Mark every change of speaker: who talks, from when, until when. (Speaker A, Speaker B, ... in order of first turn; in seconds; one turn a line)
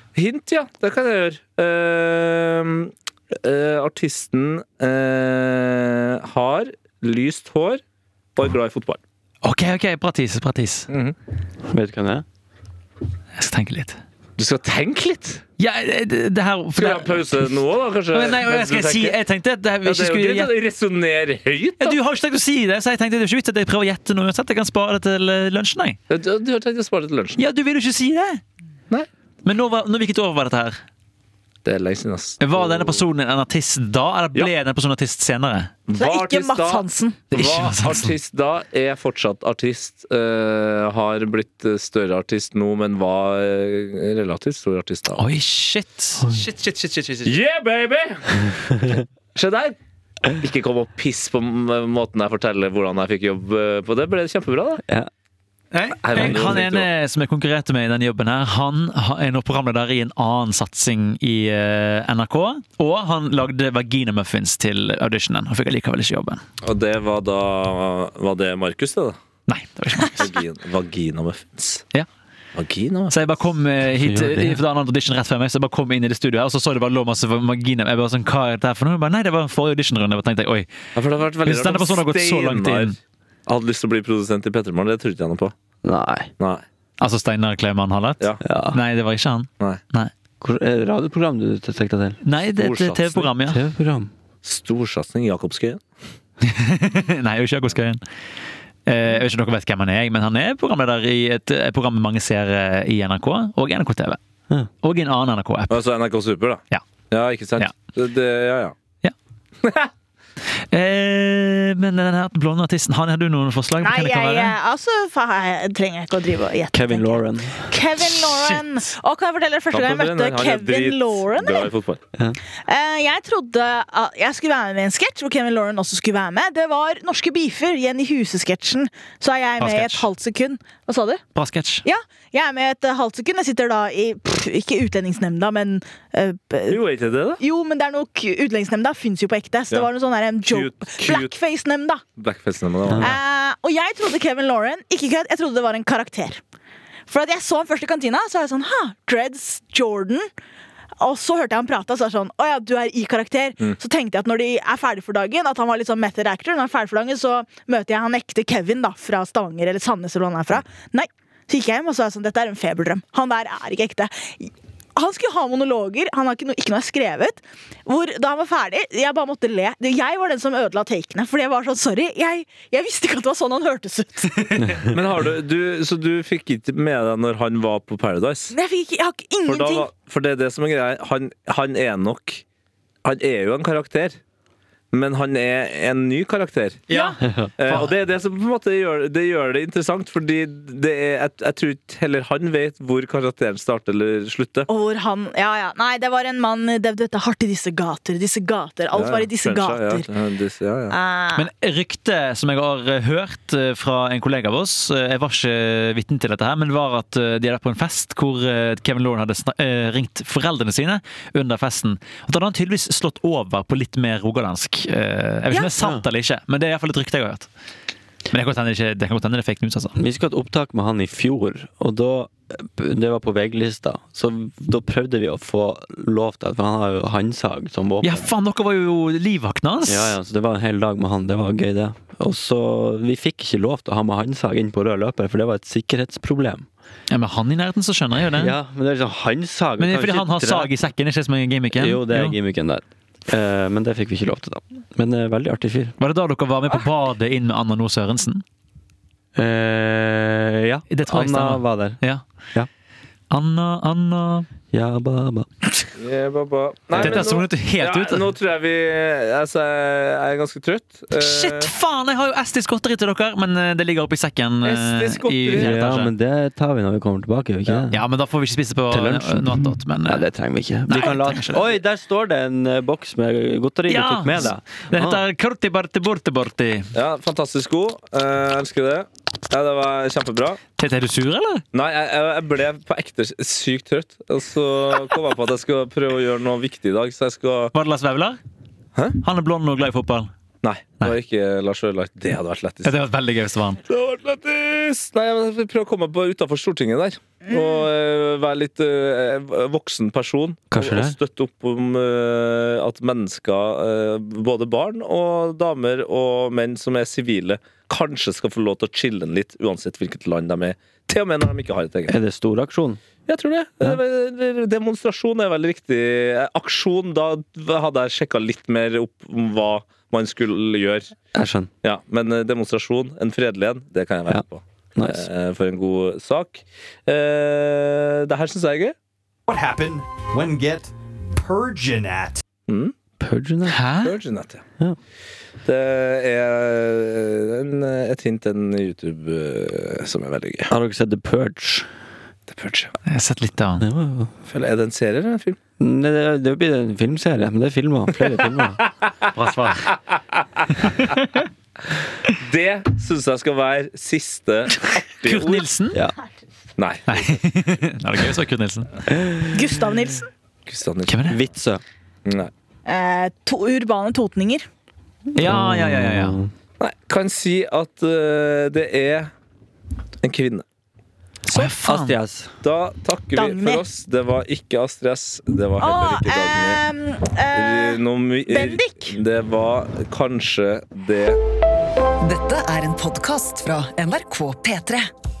Speaker A: 0.1-7.8
Speaker A: 8.3-9.0
Speaker B: 9.4-10.9
Speaker A: 10.9-11.1
Speaker C: 11.7-12.2
Speaker B: 13.4-14.0
Speaker A: 14.4-15.4
Speaker B: 15.6-17.5
Speaker A: 16.8-19.2
Speaker B: 18.1-20.5
Speaker A: 19.8-22.0
Speaker B: 21.8-26.0
Speaker A: 26.1-27.4
Speaker B: 27.4-28.4
Speaker B: 29.4-30.8
Speaker A: 31.6-33.0
Speaker B: 32.4-35.7
Speaker A: 35.9-45.2
Speaker D: 36.0-37.2
Speaker B: 37.3-38.1
Speaker B: 45.2-47.4
Speaker A: 47.2-49.8
Speaker A: 50.3-54.8
Speaker B: 55.7-66.4
Speaker A: 56.0-56.9
Speaker C: 56.2-56.5
Speaker A: 66.6-69.2
Speaker B: 69.5-70.3
Speaker A: 70.1-71.8
Speaker A: 72.5-73.1
Speaker B: 73.1-80.7
Speaker C: 74.0-74.6
Speaker A: 81.0-83.0
Speaker B: 81.4-83.0
Speaker A: 83.5-85.5
Speaker C: 85.8-86.3
Speaker A: 86.4-86.6
Speaker B: 87.0-90.1
Speaker C: 88.4-88.8
Speaker C: 90.4-94.1
Speaker B: 92.2-93.6
Speaker A: 92.6-93.3
Speaker A: 94.4-95.8
Speaker B: 96.4-98.0
Speaker B: 98.9-104.2
Speaker B: 104.8-105.8
Speaker A: 105.7-108.7
Speaker A: 109.6-109.9
Speaker B: 110.7-114.5
Speaker D: 113.8-121.7
Speaker C: 116.7-117.7
Speaker B: 118.1-118.6
Speaker A: 119.7-122.0
Speaker D: 122.7-131.2
Speaker B: 129.6-130.0
Speaker B: 131.3-131.8
Speaker D: 131.8-136.8
Speaker A: 136.7-137.4
Speaker D: 137.4-142.0
Speaker A: 140.4-141.3
Speaker A: 142.2-143.2
Speaker C: 142.9-143.1
Speaker D: 143.0-146.4
Speaker D: 147.1-150.3
Speaker D: 151.0-174.6
Speaker A: 174.9-178.5
Speaker D: 178.5-179.9
Speaker A: 179.4-182.4
Speaker A: 183.0-184.2
Speaker A: 184.9-194.7
Speaker B: 186.9-187.9
Speaker C: 187.2-187.5
Speaker D: 194.7-200.1
Speaker A: 198.9-200.9
Speaker D: 200.9-201.4
Speaker B: 201.3-217.5
Speaker B: 218.3-220.0
Speaker C: 219.9-228.3
Speaker B: 228.0-230.2
Speaker C: 229.9-236.7
Speaker B: 237.1-238.5
Speaker C: 238.3-240.7
Speaker B: 239.8-242.3
Speaker C: 241.7-245.9
Speaker B: 246.0-248.4
Speaker C: 249.3-252.0
Speaker B: 250.9-252.2
Speaker B: 253.3-254.5
Speaker C: 254.7-255.5
Speaker A: 256.0-261.7
Speaker C: 257.0-257.3
Speaker B: 257.0-258.3
Speaker B: 261.1-266.1
Speaker A: 264.6-265.8
Speaker C: 265.5-268.0
Speaker B: 267.9-270.2
Speaker C: 268.9-275.2
Speaker B: 270.9-271.8
Speaker B: 273.9-276.9
Speaker A: 276.9-280.6
Speaker B: 280.8-281.6
Speaker A: 281.7-287.7
Speaker B: 287.7-288.4
Speaker B: 289.2-290.3
Speaker A: 290.6-292.9
Speaker B: 292.8-293.8
Speaker A: 293.9-312.1
Speaker C: 300.7-301.1
Speaker C: 312.1-313.0
Speaker A: 313.3-321.1
Speaker C: 321.3-321.7
Speaker A: 321.8-328.9
Speaker C: 324.9-325.3
Speaker E: 329.5-332.4
Speaker A: 332.7-332.9
Speaker C: 333.2-333.8
Speaker B: 333.7-334.1
Speaker A: 334.0-334.6
Speaker A: 335.6-340.7
Speaker C: 340.7-341.9
Speaker A: 342.5-342.9
Speaker B: 343.1-343.9
Speaker C: 343.8-344.3
Speaker A: 344.5-345.6
Speaker C: 345.8-348.8
Speaker A: 348.8-349.1
Speaker B: 349.3-349.9
Speaker A: 349.9-351.1
Speaker A: 352.4-355.7
Speaker B: 355.2-356.0
Speaker A: 356.8-357.4
Speaker B: 357.1-358.9
Speaker D: 359.5-360.3
Speaker A: 360.7-361.2
Speaker B: 361.1-361.4
Speaker C: 361.2-361.8
Speaker A: 362.2-362.5
Speaker D: 362.9-364.7
Speaker B: 365.3-366.4
Speaker C: 365.3-366.5
Speaker A: 366.8-369.3
Speaker A: 370.2-370.6
Speaker B: 371.5-372.2
Speaker C: 371.5-372.5
Speaker A: 372.6-376.8
Speaker D: 373.3-373.8
Speaker D: 375.8-379.2
Speaker A: 377.5-381.4
Speaker F: 382.2-385.1